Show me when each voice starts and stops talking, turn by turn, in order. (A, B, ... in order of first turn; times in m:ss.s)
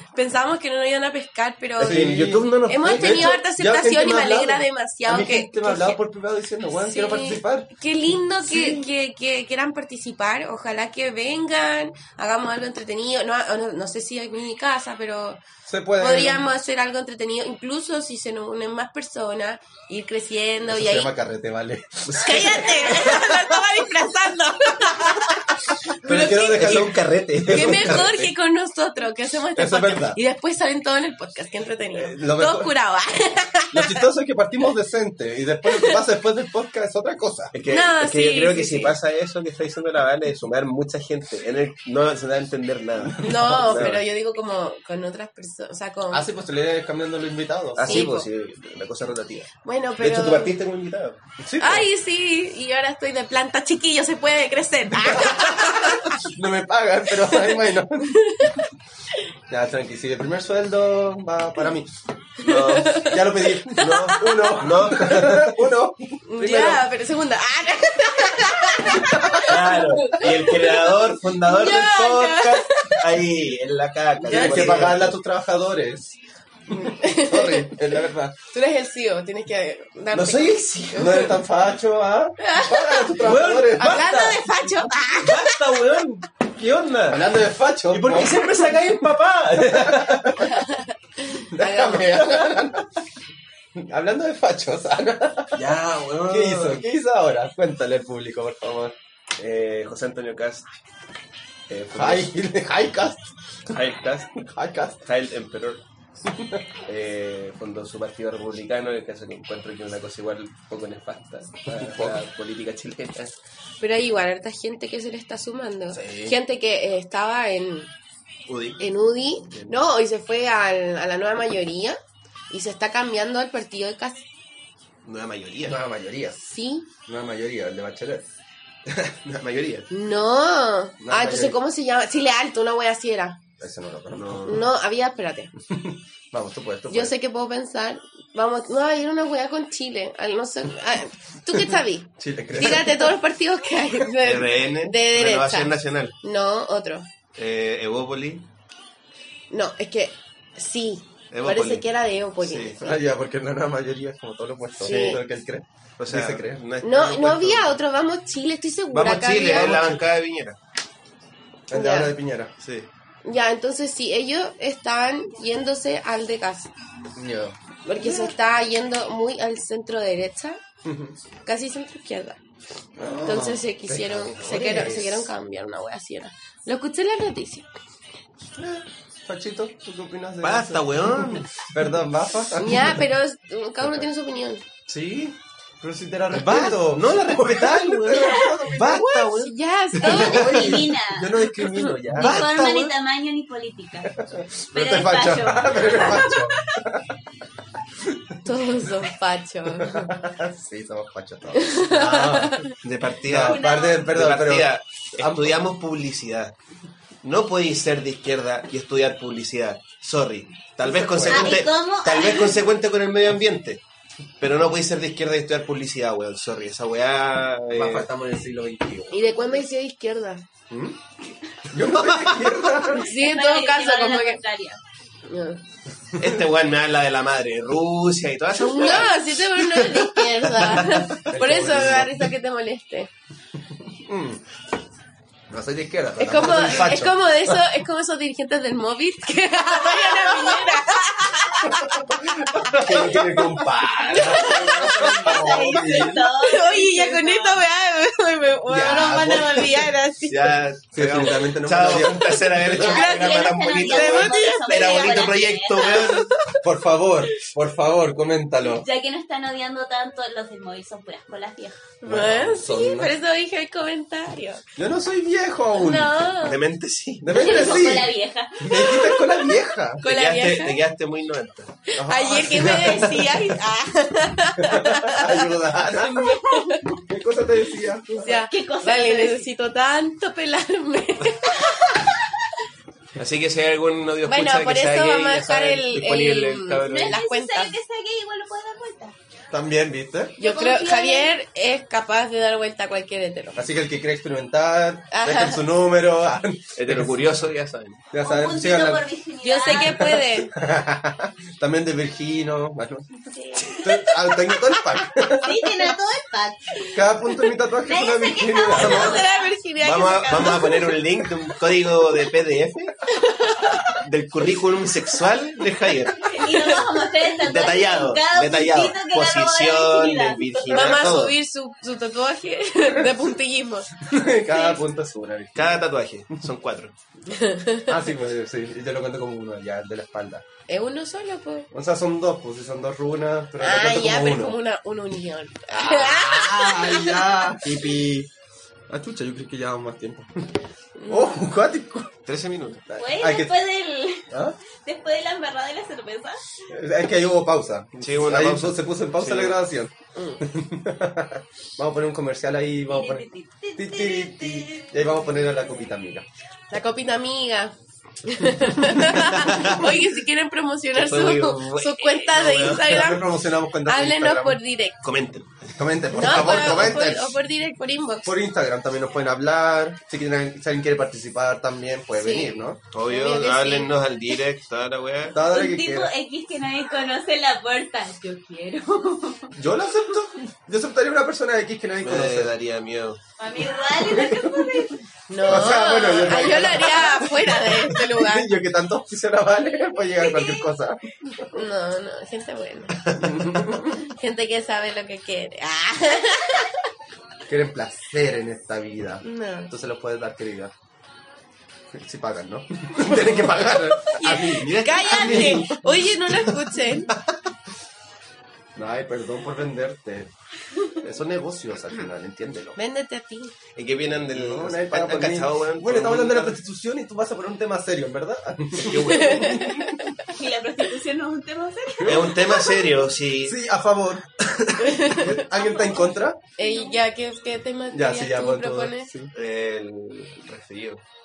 0:00.2-0:06.0 A
0:01.8-0:07.7 B
0:01.8-0:03.4 C
0:06.8-0:15.4 A
0:08.4-0:08.8 B
0:15.7-0:16.5 B
0:16.0-0:21.1 A
0:20.7-0:23.5 B
0:22.1-0:22.7 C
0:22.1-0:27.0 A
0:26.0-0:28.3 B
0:26.0-0:28.3 C
0:27.5-0:34.1 A
0:29.6-0:30.2 B
0:31.9-0:32.7 B
0:33.7-0:37.6 B
0:35.7-0:36.0 A
0:37.5-0:44.0 C
0:37.7-0:39.0 A
0:43.0-0:44.0 B
0:43.2-0:46.3 A
0:46.1-0:48.1 B
0:47.8-0:51.2 C
0:47.8-0:48.3 A
0:49.6-0:50.6 A
0:51.4-0:51.9 B
0:51.6-0:56.2 A
0:55.0-0:58.2 B
0:57.2-0:58.6 A
0:59.5-1:01.9 B
1:02.4-1:04.6 A
1:02.4-1:03.2 C
1:02.9-1:06.8 B
1:03.7-1:05.5 C
1:06.3-1:13.1 A
1:09.0-1:09.4 B
1:09.4-1:15.2 C
1:14.2-1:16.2 B
1:14.3-1:14.9 A
1:16.7-1:18.3 B
1:16.9-1:17.8 A
1:18.5-1:21.3 A
1:20.1-1:21.4 C
1:21.0-1:24.1 B
1:22.4-1:23.2 A
1:23.2-1:24.5 C
1:23.8-1:25.6 A
1:25.2-1:27.3 C
1:27.1-1:28.5 B
1:27.9-1:30.4 C
1:29.6-1:30.6 B
1:30.5-1:32.3 A
1:31.4-1:32.9 B
1:33.8-1:35.7 B
1:35.6-1:36.8 C
1:36.2-1:39.0 B
1:39.4-1:40.7 C
1:41.7-1:42.3 C
1:41.9-1:43.3 B
1:43.7-1:44.5 C
1:44.5-1:45.0 B
1:45.0-1:45.8 C
1:46.3-1:46.6 B
1:46.9-1:53.3 C
1:51.7-1:52.2 B
1:53.8-1:57.9 A
1:56.0-1:56.3 B
1:56.0-1:56.3 C
1:58.5-1:58.8 C
1:58.8-2:02.0 A
1:59.5-1:59.8 C
2:02.5-2:04.2 A
2:05.0-2:05.8 C
2:05.6-2:06.4 B
2:06.4-2:06.9 A
2:07.1-2:08.3 B
2:09.0-2:09.9 C
2:09.9-2:13.4 A
2:11.0-2:11.6 B
2:13.6-2:14.6 B
2:14.1-2:14.6 C
2:14.4-2:15.5 A
2:15.7-2:17.1 B
2:16.9-2:27.1 A
2:22.2-2:23.2 B
2:22.6-2:22.8 C
2:24.2-2:26.2 C
2:27.4-2:28.5 C
2:29.5-2:33.0 A
2:31.3-2:31.8 C
2:32.4-2:32.8 C
2:32.8-2:36.6 B
2:34.8-2:35.2 A
2:34.8-2:35.2 C
2:36.0-2:37.8 C
2:36.8-2:39.9 A
2:38.9-2:40.6 C
2:39.4-2:40.0 B
2:41.7-2:42.5 B
2:41.7-2:42.2 A
2:42.6-2:42.9 C
2:43.2-2:46.7 A
2:47.2-2:48.4 B
2:47.8-2:50.6 A
2:50.8-2:51.2 B
2:51.4-2:52.4 A
2:53.0-2:55.2 B
2:53.2-2:57.7 A
2:54.3-2:55.0 C
2:58.6-3:03.0 B
3:00.4-3:01.5 C
3:02.6-3:04.6 A
3:04.9-3:05.3 C
3:05.8-3:09.4 B
3:06.3-3:10.5 C
3:08.2-3:08.5 D
3:09.4-3:10.8 A
3:10.0-3:12.6 B
3:10.0-3:11.5 D
3:11.7-3:12.0 A
3:12.1-3:12.9 C
3:12.2-3:14.2 D
3:14.1-3:17.1 B
3:14.7-3:16.8 D
3:18.0-3:18.3 B
3:18.4-3:20.1 A
3:19.8-3:22.6 B
3:21.6-3:22.7 A
3:22.7-3:26.5 C
3:23.2-3:25.6 B
3:23.3-3:24.1 D
3:27.2-3:33.8 C
3:30.8-3:31.7 B
3:31.3-3:32.6 D
3:34.4-3:38.1 C
3:37.7-3:39.2 B
3:39.1-3:40.4 A
3:40.7-3:41.0 B
3:41.7-3:43.1 B
3:41.8-3:42.7 C
3:42.9-3:44.4 A
3:43.1-3:44.8 D
3:45.3-3:45.6 A
3:46.2-3:51.2 C
3:48.6-3:53.1 A
3:51.2-3:52.2 B
3:53.9-3:54.4 B
3:55.5-3:57.6 B
3:56.2-4:03.0 A
3:56.4-3:56.9 C
4:01.6-4:06.3 B
4:02.7-4:05.4 C
4:04.1-4:10.6 A
4:05.0-4:07.6 D
4:08.7-4:09.9 B
4:10.3-4:16.3 C
4:10.9-4:13.0 B
4:12.6-4:16.2 D
4:12.8-4:15.2 A
4:15.8-4:16.5 A
4:16.6-4:18.9 B
4:18.6-4:21.8 D
4:22.0-4:24.6 A
4:22.0-4:23.1 B
4:24.8-4:26.1 B
4:25.8-4:26.6 A
4:26.4-4:28.0 C
4:27.2-4:30.0 B
4:27.3-4:29.3 D
4:30.0-4:30.8 A
4:30.0-4:31.7 C
4:32.0-4:35.5 A
4:32.0-4:33.4 B
4:34.6-4:38.2 B
4:36.1-4:36.8 A
4:38.1-4:42.2 A
4:38.2-4:39.5 D
4:43.2-4:47.2 C
4:44.2-4:47.8 A
4:46.8-4:49.2 D
4:49.5-4:50.4 B
4:50.4-4:51.3 D
4:50.4-4:53.6 A
4:53.6-4:57.1 B
4:55.1-4:55.6 A
4:56.8-4:58.0 C
4:58.1-4:59.1 B
4:58.2-5:00.0 D
4:59.4-5:00.5 A
4:59.7-5:03.1 B
5:03.3-5:04.0 D
5:03.8-5:05.9 B
5:05.3-5:07.0 D
5:06.9-5:09.2 B
5:07.8-5:09.5 D
5:08.7-5:11.0 A
5:09.8-5:13.0 C
5:10.3-5:10.6 D
5:13.1-5:14.0 A
5:14.0-5:16.3 C
5:16.2-5:21.0 D
5:16.5-5:16.8 A
5:17.4-5:21.4 C
5:20.7-5:23.9 A
5:24.0-5:25.7 B
5:25.6-5:27.0 C
5:27.3-5:28.0 A
5:27.9-5:30.4 B
5:30.7-5:31.7 A
5:31.7-5:34.6 B
5:33.6-5:37.6 A
5:35.7-5:38.3 B
5:38.9-5:40.5 B
5:41.0-5:41.4 A
5:41.1-5:42.1 B
5:42.3-5:42.8 C
5:42.9-5:43.5 B
5:43.0-5:44.3 D
5:44.3-5:44.6 B
5:44.8-5:46.4 D
5:46.7-5:56.3 B
5:48.0-5:49.6 C
5:50.2-5:50.4 A
5:52.9-5:55.1 D
5:56.7-6:03.3 A
5:59.1-6:00.0 C
6:00.9-6:03.0 C
6:02.6-6:04.6 B
6:03.8-6:05.0 A
6:05.0-6:07.1 C
6:05.8-6:07.3 B
6:06.1-6:08.3 A
6:08.2-6:12.8 B
6:12.2-6:12.5 A
6:12.9-6:15.4 C
6:13.1-6:13.9 A
6:15.3-6:16.1 B
6:15.4-6:19.5 D
6:19.6-6:22.5 B
6:22.0-6:23.2 C
6:23.4-6:25.0 D
6:24.0-6:24.8 B
6:25.3-6:28.5 A
6:25.4-6:31.6 B
6:30.2-6:30.6 D
6:31.5-6:33.0 A
6:33.2-6:34.0 B
6:33.8-6:36.7 A
6:37.5-6:40.7 B
6:39.2-6:39.7 A
6:41.9-6:45.9 B
6:44.1-6:47.1 A
6:44.4-6:45.7 C
6:48.8-6:50.3 B
6:51.0-6:52.8 B
6:52.8-6:53.5 A
6:53.8-6:56.6 C
6:54.3-6:59.9 B
6:58.8-6:59.9 C
6:59.3-6:59.9 A
7:00.3-7:02.8 D
7:02.0-7:02.4 B
7:02.0-7:03.6 C
7:03.4-7:06.4 B
7:04.8-7:05.3 A
7:06.6-7:09.1 A
7:06.6-7:07.0 D
7:07.9-7:09.3 B
7:09.3-7:11.0 C